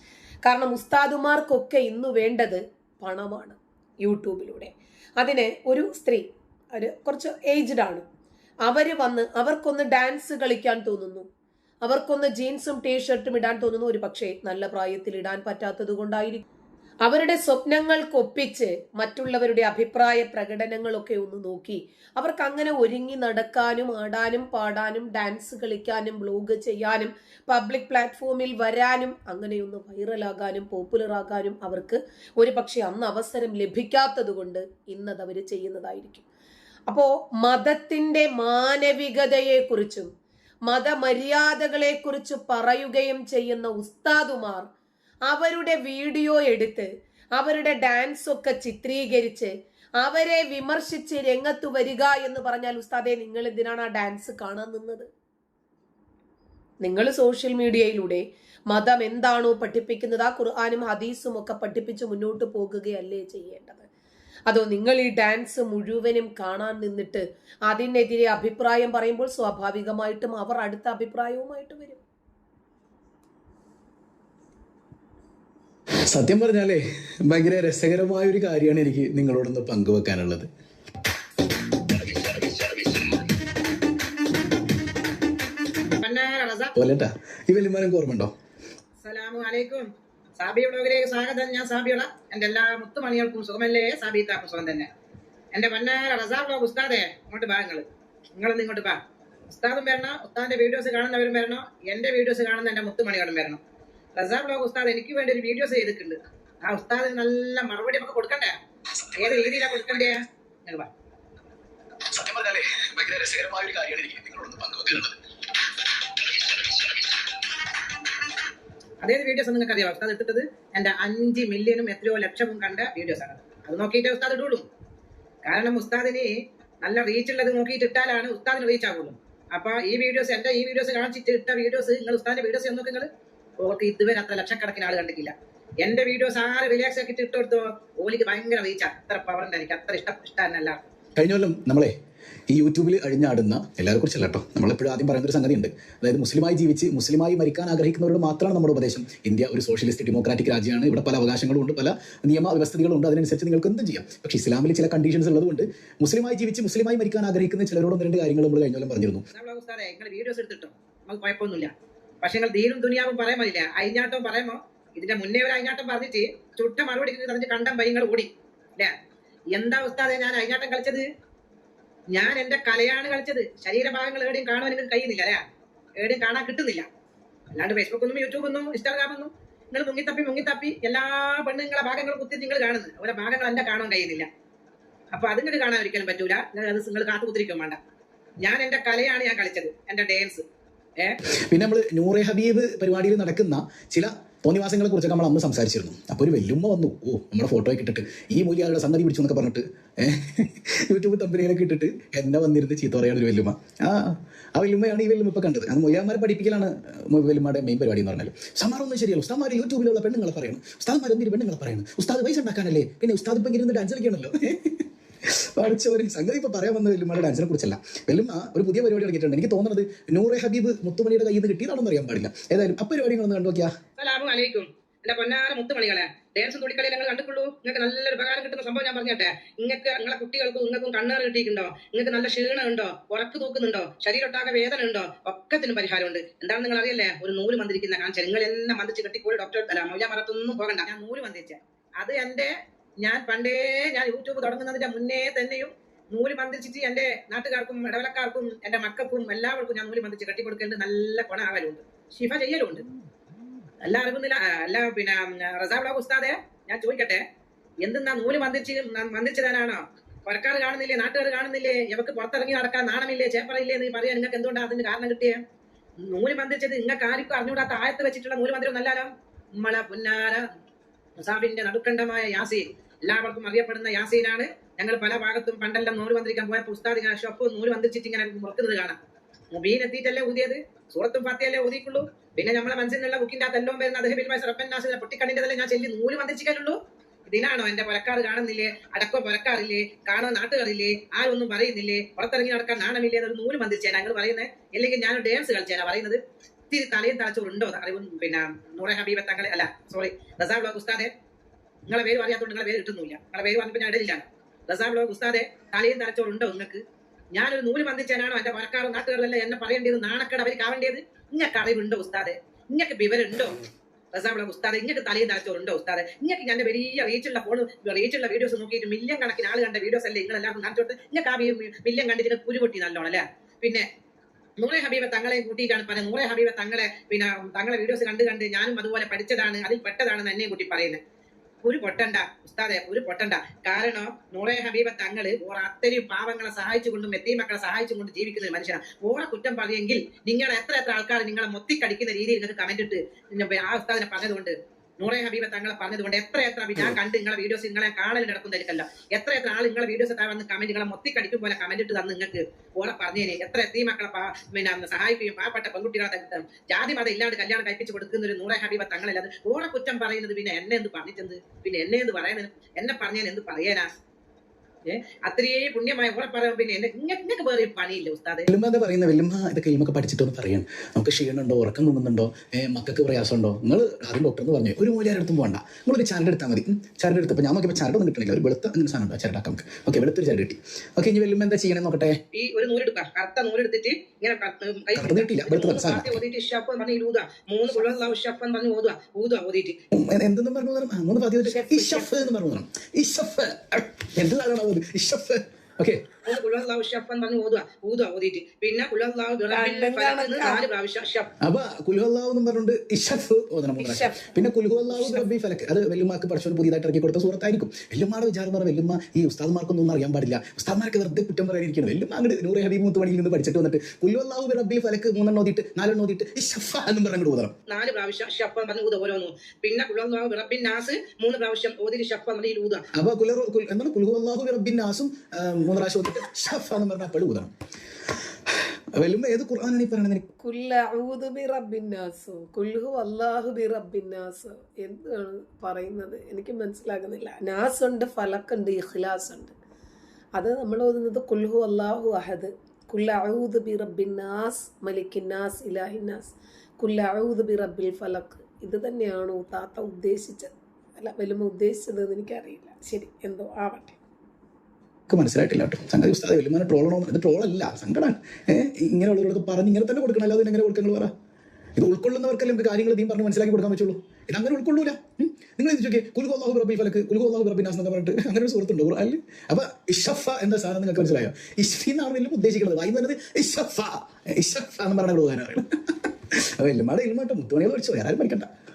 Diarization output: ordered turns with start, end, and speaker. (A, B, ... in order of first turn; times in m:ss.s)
0:00.4-0:08.0 A
0:08.6-0:11.3 A
0:11.8-0:16.4 A
0:17.0-0:36.2 A
0:36.9-0:40.1 A
0:40.7-0:44.7 A
0:45.3-0:55.1 A
0:56.8-1:03.9 A
1:04.5-1:12.0 A
1:16.1-1:20.5 B
1:21.9-1:23.2 B
1:26.0-1:26.7 C
1:26.8-1:28.3 B
1:29.0-1:34.9 C
1:35.5-1:43.6 C
1:44.2-1:48.6 C
1:49.0-1:50.1 B
1:49.1-1:50.9 C
1:52.1-1:55.2 B
1:56.0-1:57.2 B
1:59.0-2:04.6 C
2:05.4-2:13.1 C
2:13.6-2:20.8 C
2:21.2-2:21.9 B
2:22.5-2:39.2 B
2:39.3-2:48.9 C
2:49.5-2:51.0 C
2:52.1-2:56.9 C
2:57.5-3:04.3 C
3:05.1-3:07.8 C
3:08.4-3:10.4 C
3:11.5-3:43.7 B
3:44.0-4:12.8 C
4:13.8-4:17.2 C
4:17.8-4:25.4 C
4:26.0-4:30.4 C
4:31.2-4:39.0 C
4:39.5-5:01.1 C
5:01.9-5:06.8 C
5:07.3-5:13.6 C
5:14.1-5:23.8 C
5:24.6-5:31.0 C
5:31.6-6:03.9 C
6:04.8-6:08.5 C
6:08.5-6:22.2 B
6:22.3-6:29.8 C
6:24.9-6:26.2 B
6:29.9-6:36.1 B
6:31.4-6:32.3 A
6:36.2-6:41.3 C
6:39.5-6:40.6 A
6:41.4-6:57.5 B
6:43.8-6:44.3 A
6:44.9-6:45.2 A
6:57.7-7:02.8 C
7:02.9-7:07.5 B
7:08.9-7:10.2 B
7:10.4-7:19.5 A
7:20.4-7:34.0 A
7:35.1-7:41.1 B
7:41.8-7:58.5 B